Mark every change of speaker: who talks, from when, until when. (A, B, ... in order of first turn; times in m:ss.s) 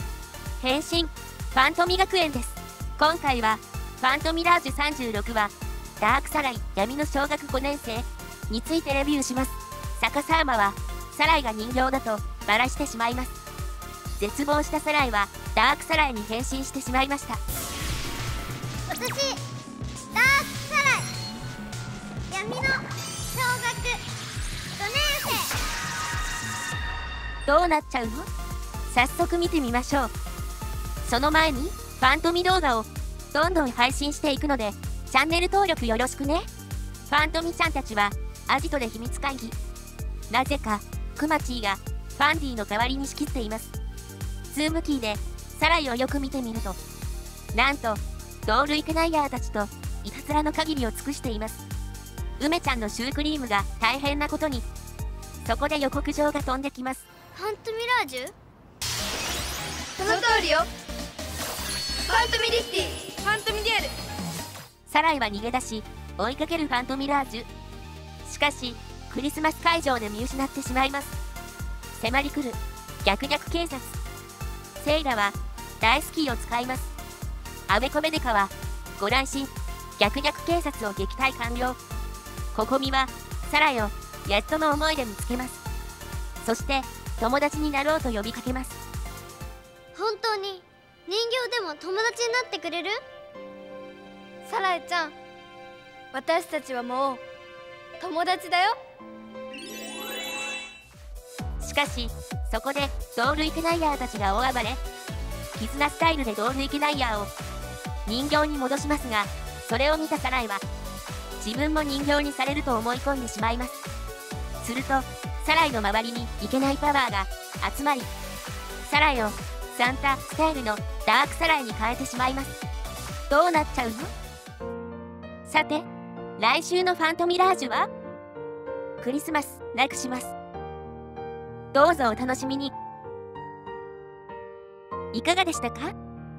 0:00.6-0:13.4 A
0:14.2-0:17.4 A
0:18.9-0:19.4 B
0:20.1-0:21.1 B
0:22.3-0:24.0 B
0:24.8-0:25.6 B
0:27.5-0:28.3 A
0:28.9-0:30.1 A
0:31.0-0:36.5 A
0:37.1-0:39.6 A
0:40.3-0:43.7 A
0:44.5-0:46.8 A
0:47.5-0:51.6 A
0:52.4-0:54.7 A
0:55.4-0:57.1 A
0:57.4-0:58.3 B
1:00.0-1:00.7 C
1:02.1-1:03.9 C
1:04.9-1:07.5 A
1:08.2-1:11.2 A
1:12.0-1:14.0 A
1:14.8-1:16.9 A
1:17.7-1:21.8 A
1:22.5-1:25.6 A
1:26.4-1:28.8 A
1:29.9-1:33.0 B
1:34.4-1:35.1 C
1:36.1-1:37.2 C
1:38.0-1:38.8 C
1:41.6-1:44.8 A
1:45.6-1:47.3 A
1:48.1-1:50.6 A
1:51.4-1:53.8 A
1:54.6-1:58.1 A
1:58.8-2:02.6 A
2:03.3-2:04.1 A
2:05.5-2:05.9 A
2:06.4-2:07.9 A
2:09.0-2:10.3 A
2:11.7-2:12.7 A
2:15.1-2:15.9 A